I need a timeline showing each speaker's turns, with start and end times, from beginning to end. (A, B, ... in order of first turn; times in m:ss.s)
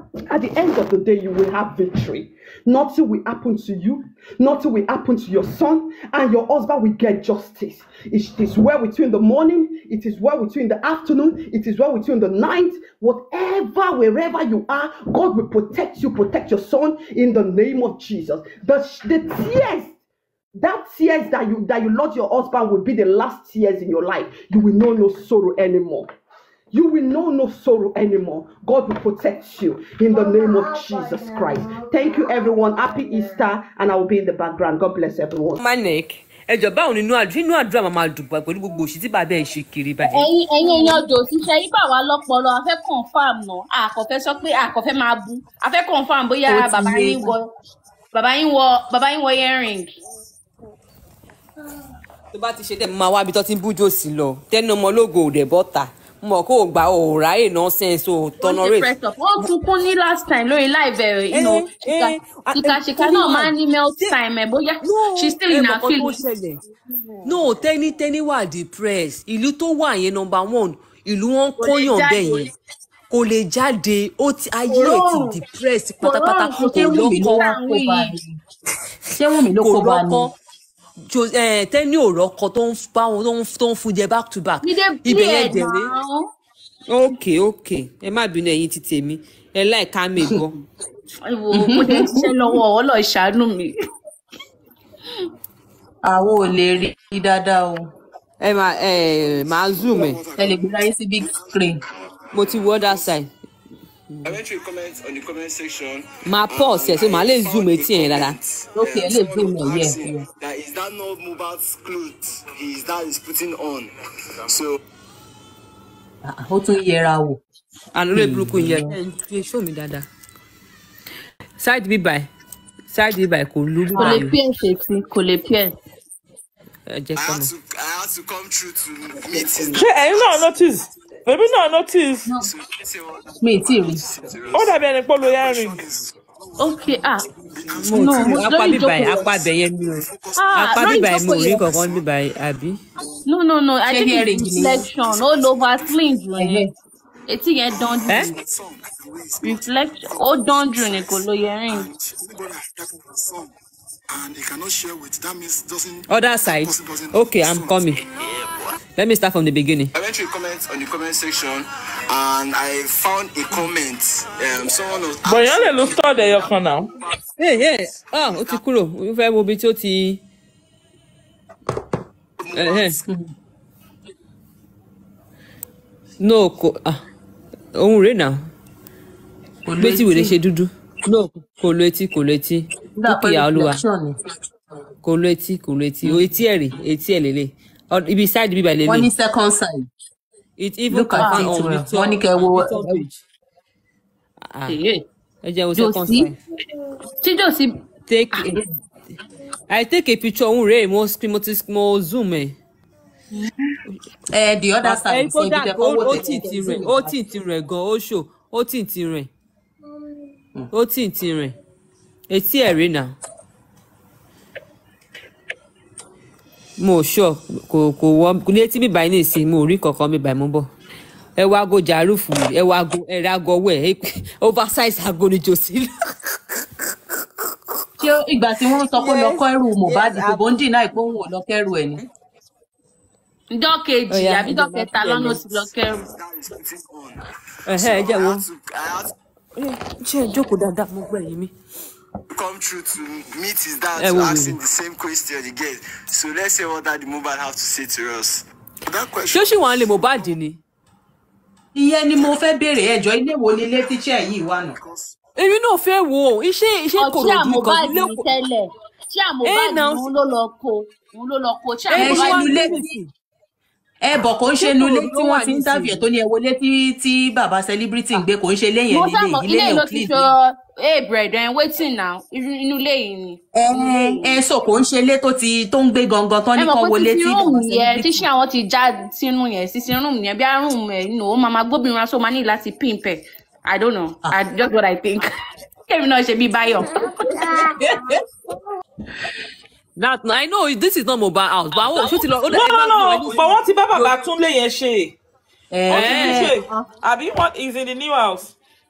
0:00.3-0:19.9 A
0:20.6-0:26.1 A
0:26.7-0:35.6 A
0:35.6-0:40.3 B
0:40.0-0:47.5 C
0:46.5-0:47.3 B
0:48.1-0:49.9 C
0:52.3-0:58.9 B
0:58.4-1:06.2 C
1:01.3-1:04.2 B
1:04.8-1:06.6 B
1:07.2-1:12.5 B
1:11.6-1:12.5 C
1:13.1-1:17.5 B
1:14.7-1:15.4 C
1:16.0-1:18.2 C
1:16.5-1:18.3 D
1:19.2-1:20.3 D
1:19.6-1:20.3 B
1:21.1-1:25.9 B
1:24.6-1:26.3 C
1:26.9-1:30.5 B
1:31.2-1:33.8 C
1:31.5-1:32.4 D
1:36.0-1:37.9 D
1:38.4-1:40.2 B
1:39.8-1:41.6 E
1:40.4-1:41.8 D
1:42.3-1:43.3 B
1:42.4-1:43.2 E
1:44.2-1:53.9 E
1:46.2-1:48.4 B
1:48.8-1:50.2 D
1:54.5-1:54.8 E
1:56.2-1:57.4 D
1:57.9-2:00.1 B
1:58.1-1:59.0 D
2:01.6-2:02.3 B
2:02.9-2:04.3 B
2:04.0-2:05.8 C
2:06.9-2:07.5 B
2:07.2-2:10.6 E
2:09.8-2:12.3 F
2:12.4-2:19.4 E
2:13.4-2:14.1 D
2:14.5-2:15.8 F
2:16.6-2:17.3 C
2:17.8-2:19.3 C
2:17.8-2:22.8 B
2:20.0-2:22.0 E
2:20.4-2:21.6 C
2:23.3-2:26.6 C
2:23.9-2:24.9 D
2:24.8-2:26.1 E
2:26.4-2:26.7 D
2:27.3-2:28.3 C
2:27.8-2:33.5 E
2:29.4-2:31.9 C
2:34.1-2:38.8 E
2:36.1-2:38.0 B
2:39.0-2:39.9 B
2:40.0-2:48.6 E
2:45.2-2:46.9 F
2:47.4-2:50.2 B
2:52.4-2:53.0 E
2:52.6-2:53.0 B
2:56.2-2:57.0 B
2:57.7-2:58.5 B
2:59.7-3:00.4 D
2:59.8-3:03.8 B
3:03.0-3:04.2 D
3:05.0-3:09.1 B
3:08.9-3:09.9 D
3:10.6-3:13.2 B
3:10.9-3:13.0 D
3:11.2-3:11.5 C
3:14.5-3:14.8 B
3:14.7-3:15.0 C
3:15.4-3:16.4 B
3:15.8-3:16.3 C
3:17.2-3:17.8 C
3:18.1-3:18.7 B
3:18.3-3:18.6 C
3:19.7-3:22.6 B
3:24.3-3:27.1 D
3:24.8-3:29.3 B
3:30.7-3:31.6 B
3:32.3-3:33.2 B
3:36.8-3:40.7 B
3:41.4-3:46.3 B
3:48.0-3:52.0 D
3:49.0-3:50.6 B
3:53.5-3:56.1 C
3:54.1-3:55.4 B
3:55.9-3:57.2 E
3:57.7-3:58.4 B
3:57.7-3:59.1 E
3:59.6-4:01.5 B
4:02.3-4:09.5 E
4:04.0-4:04.6 B
4:09.3-4:10.6 B
4:11.8-4:14.8 D
4:14.8-4:15.1 E
4:15.4-4:18.3 B
4:17.0-4:22.7 C
4:19.4-4:20.1 B
4:21.9-4:23.1 B
4:21.9-4:23.0 D
4:24.0-4:30.3 D
4:24.6-4:26.0 B
4:28.9-4:34.4 C
4:33.5-4:38.3 D
4:36.6-4:47.7 C
4:50.0-4:53.6 B
4:52.5-4:55.2 F
4:55.7-4:56.9 D
4:55.9-4:58.5 F
4:55.9-4:56.6 B